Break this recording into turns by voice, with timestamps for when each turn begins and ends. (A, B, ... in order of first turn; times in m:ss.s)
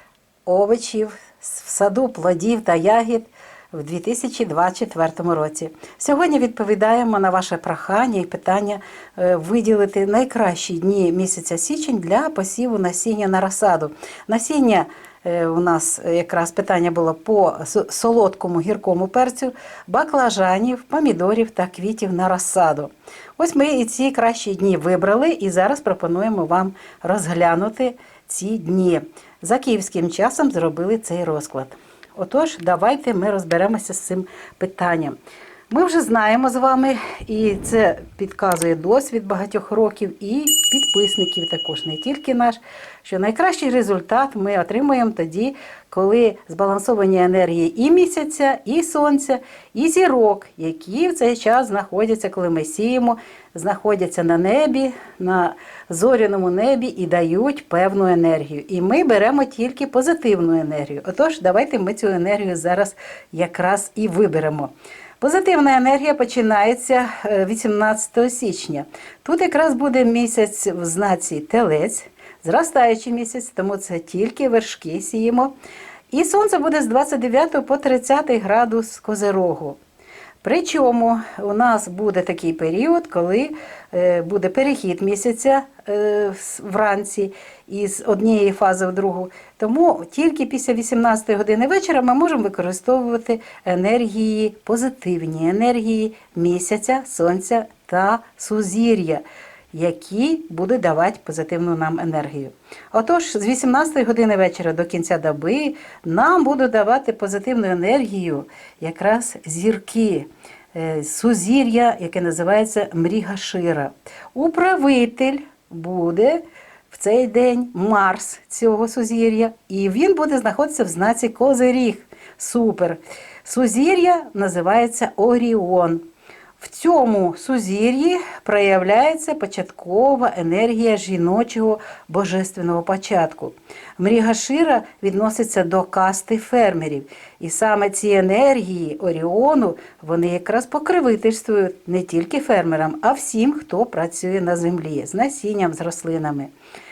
0:00.4-0:35.2 A
0:35.7-1:15.5 A
1:16.1-1:19.8 A
1:20.4-2:06.0 A
2:06.6-2:26.5 A